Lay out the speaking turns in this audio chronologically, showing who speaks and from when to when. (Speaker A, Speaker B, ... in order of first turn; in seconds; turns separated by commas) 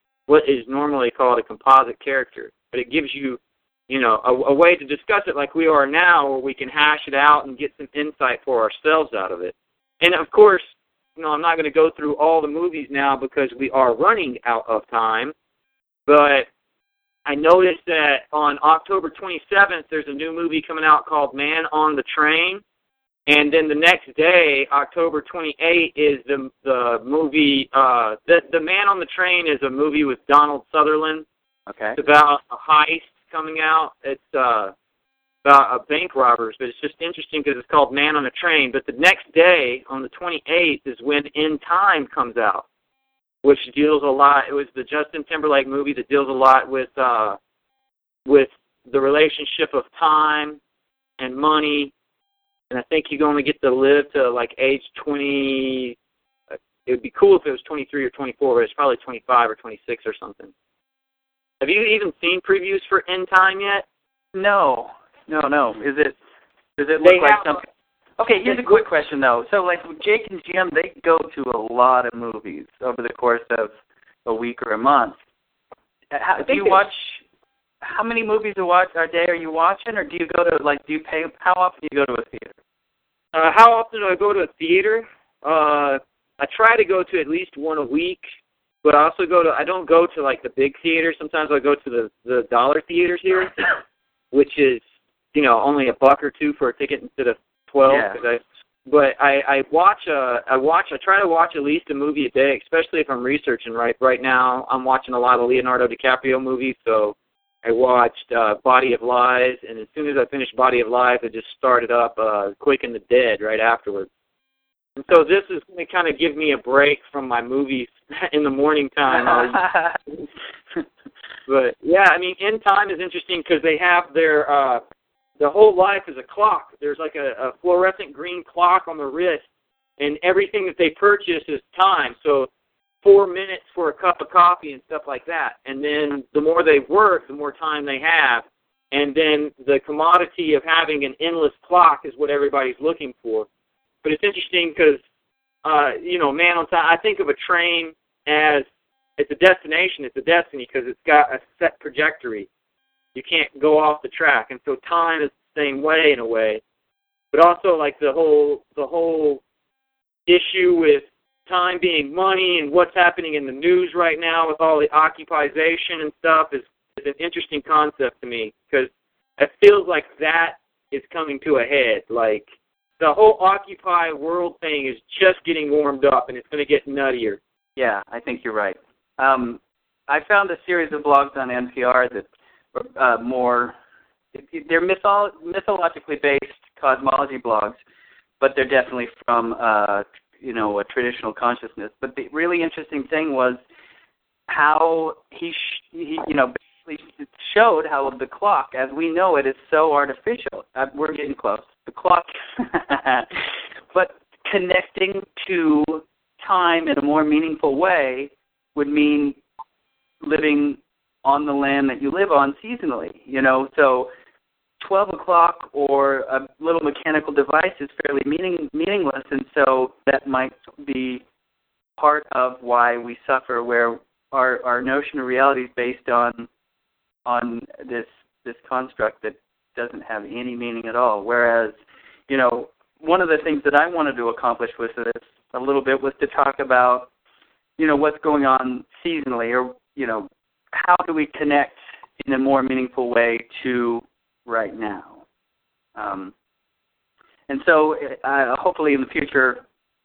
Speaker A: 0.3-10.6, Speaker A: 11.2-15.3, Speaker A: 16.1-16.5, Speaker A: 17.2-22.6, Speaker A: 23.3-31.2, Speaker B: 31.7-32.0, Speaker A: 32.0-34.7, Speaker A: 35.4-42.6, Speaker A: 43.4-47.4, Speaker A: 48.2-50.6, Speaker A: 51.2-51.9, Speaker A: 52.7-56.0, Speaker A: 56.5-60.5, Speaker A: 61.6-63.8, Speaker B: 64.3-66.2, Speaker B: 66.8-67.6, Speaker A: 67.0-67.6, Speaker B: 68.2-73.7, Speaker A: 68.5-68.8, Speaker B: 74.2-75.2, Speaker B: 76.1-77.2, Speaker A: 76.4-76.8, Speaker B: 77.8-82.6, Speaker A: 83.3-88.3, Speaker A: 88.8-93.5, Speaker A: 94.3-94.8, Speaker A: 95.3-114.1, Speaker B: 97.9-98.2, Speaker A: 115.0-119.6, Speaker B: 119.1-120.0, Speaker A: 121.5-124.8, Speaker A: 125.4-129.4, Speaker A: 130.0-132.5, Speaker A: 133.0-143.5, Speaker A: 144.0-145.0, Speaker A: 145.6-148.7, Speaker A: 149.2-152.5, Speaker A: 153.1-156.6, Speaker A: 157.3-159.4, Speaker A: 160.3-172.5, Speaker A: 173.0-177.4, Speaker B: 177.8-183.8, Speaker B: 184.3-187.8, Speaker B: 188.4-193.6, Speaker B: 194.5-209.4, Speaker B: 210.2-214.1, Speaker B: 214.8-221.2, Speaker B: 222.0-226.5, Speaker B: 227.2-231.8, Speaker B: 232.3-237.1, Speaker B: 237.8-245.2, Speaker B: 245.9-246.3, Speaker B: 247.5-249.6